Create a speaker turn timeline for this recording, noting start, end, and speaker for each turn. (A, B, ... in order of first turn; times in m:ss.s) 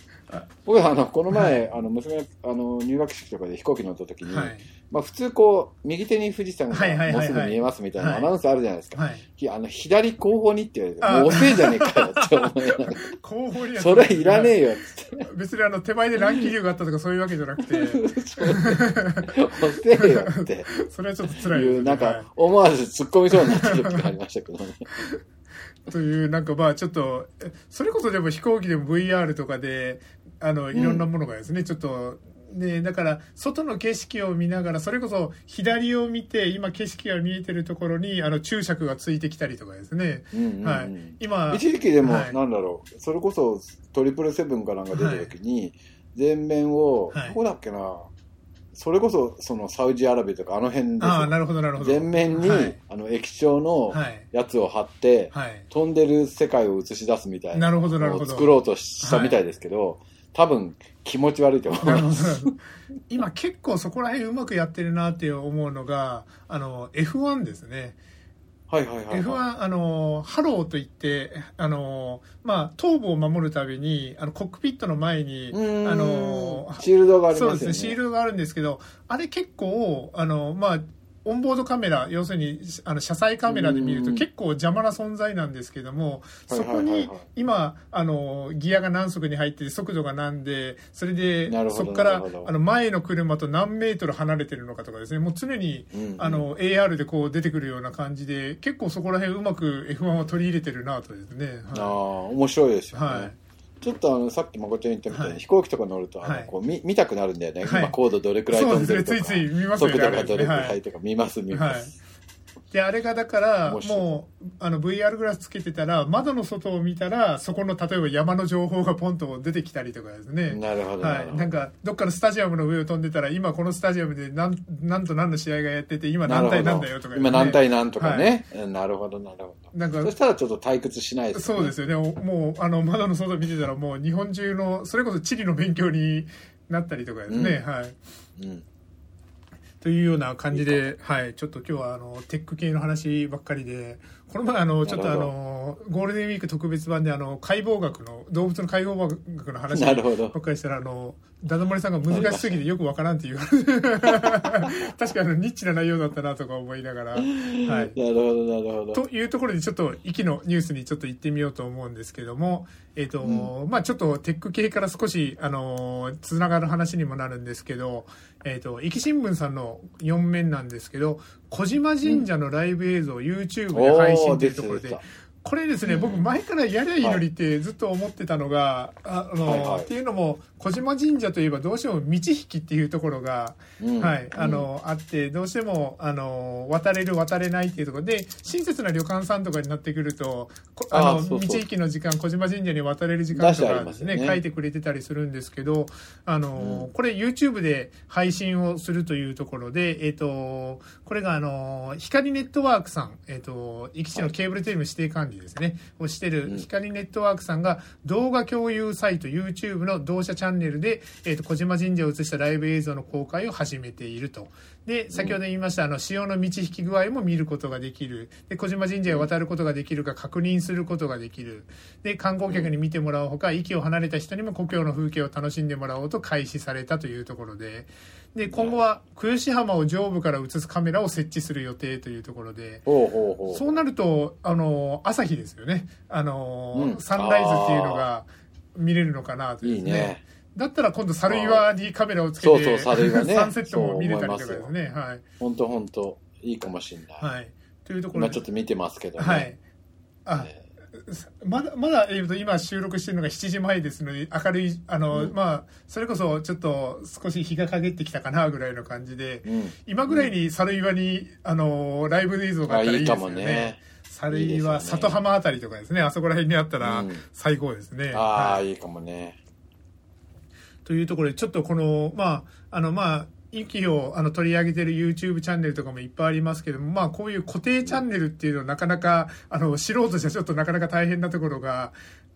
0:00.6-0:13.0 A
0:01.3-0:01.6 B
0:04.2-0:04.7 B
0:06.7-0:08.3 B
0:08.9-0:09.2 B
0:11.0-0:14.6 B
0:13.8-0:15.3 A
0:15.2-0:19.3 B
0:17.6-0:20.7 A
0:20.0-0:22.3 B
0:21.4-0:24.9 A
0:23.3-0:24.1 B
0:25.9-0:42.4 B
0:30.7-0:31.0 A
0:40.3-0:48.1 A
0:44.9-0:45.3 B
0:47.1-0:47.4 B
0:48.7-1:02.5 A
0:51.0-0:52.8 B
0:53.9-0:54.3 B
0:55.3-0:55.6 B
0:57.5-0:59.4 B
1:01.7-1:08.0 B
1:08.7-1:09.4 A
1:09.1-1:42.0 B
1:15.5-1:18.0 A
1:23.5-1:24.2 A
1:26.5-1:27.2 A
1:31.5-1:32.5 A
1:35.9-1:36.5 A
1:41.7-1:51.9 A
1:42.9-1:43.4 B
1:45.1-1:45.4 B
1:46.2-1:46.5 B
1:47.6-1:48.0 B
1:48.5-1:50.8 B
1:51.5-1:51.9 B
1:52.7-2:08.4 B
1:53.6-1:54.0 A
2:00.5-2:01.5 A
2:06.2-2:11.7 A
2:09.7-2:10.1 B
2:11.3-2:18.0 B
2:17.3-2:17.6 A
2:18.4-2:18.6 A
2:19.8-2:38.0 B
2:20.5-2:20.9 A
2:24.8-2:25.3 A
2:29.7-2:30.4 A
2:32.1-2:32.6 A
2:34.2-2:34.7 A
2:37.2-2:39.0 A
2:38.9-3:52.8 B
2:43.2-2:43.5 A
2:53.7-2:55.0 A
2:55.8-2:56.2 A
2:57.0-2:57.2 A
2:59.4-2:59.9 A
3:03.8-3:04.7 A
3:10.9-3:11.6 A
3:13.3-3:14.4 A
3:16.6-3:16.9 A
3:48.5-3:48.8 A
3:52.8-3:53.8 A
3:53.5-4:05.2 B
3:56.7-3:58.0 A
3:59.6-4:00.2 A
4:01.3-4:01.7 A
4:02.4-4:04.7 A
4:05.4-4:07.2 A
4:07.2-4:08.4 B
4:08.1-4:09.5 A
4:09.2-4:09.6 B
4:10.2-4:28.6 B
4:19.4-4:20.3 A
4:22.7-4:25.2 A
4:26.8-4:27.2 A
4:28.1-4:29.4 A
4:30.8-4:41.9 B